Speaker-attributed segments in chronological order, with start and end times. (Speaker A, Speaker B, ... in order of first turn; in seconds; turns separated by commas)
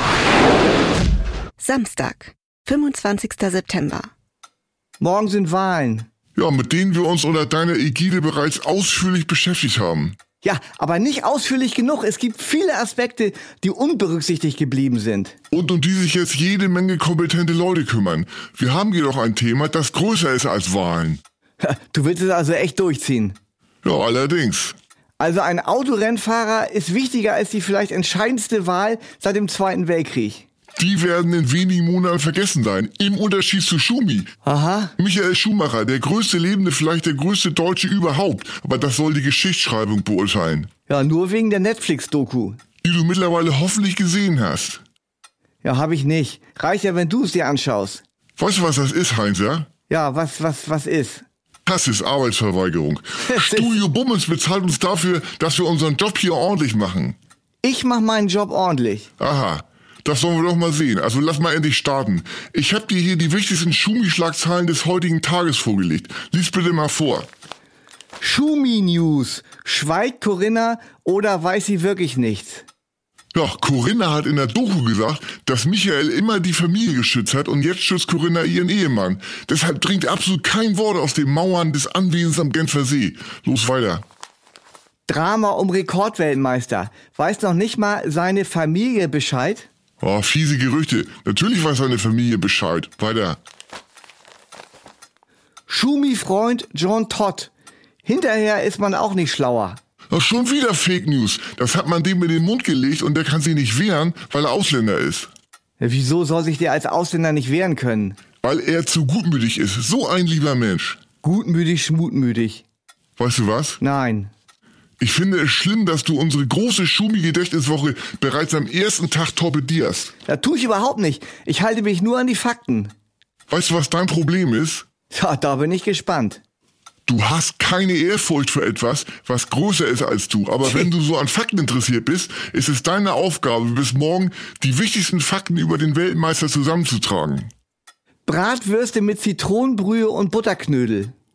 Speaker A: 1.6-4.1, Speaker B: 5.0-6.1, Speaker C: 6.3-10.2, Speaker B: 10.4-15.3, Speaker C: 15.5-21.2, Speaker B: 21.6-23.4, Speaker C: 23.8-24.8, Speaker B: 25.2-30.4, Speaker C: 30.8-34.3, Speaker B: 34.4-34.9, Speaker C: 35.0-40.7, Speaker B: 40.9-42.6, Speaker C: 42.8-44.8, Speaker B: 45.6-48.0, Speaker C: 48.4-49.7, Speaker B: 49.9-51.2, Speaker C: 51.6-57.1, Speaker B: 53.2-53.7, Speaker B: 57.6-59.1, Speaker C: 59.2-67.3, Speaker B: 68.2-72.7, Speaker C: 73.3-84.0, Speaker B: 85.1-89.7, Speaker C: 90.0-93.4, Speaker B: 95.7-97.5, Speaker B: 98.0-99.8, Speaker C: 100.1-105.3, Speaker B: 105.8-108.2, Speaker C: 108.4-111.0, Speaker B: 111.2-112.6, Speaker C: 113.2-113.8, Speaker B: 113.8-114.3, Speaker C: 115.0-120.1, Speaker B: 120.2-122.9, Speaker C: 123.5-124.8, Speaker B: 125.1-126.4, Speaker C: 127.0-137.5, Speaker B: 138.2-141.1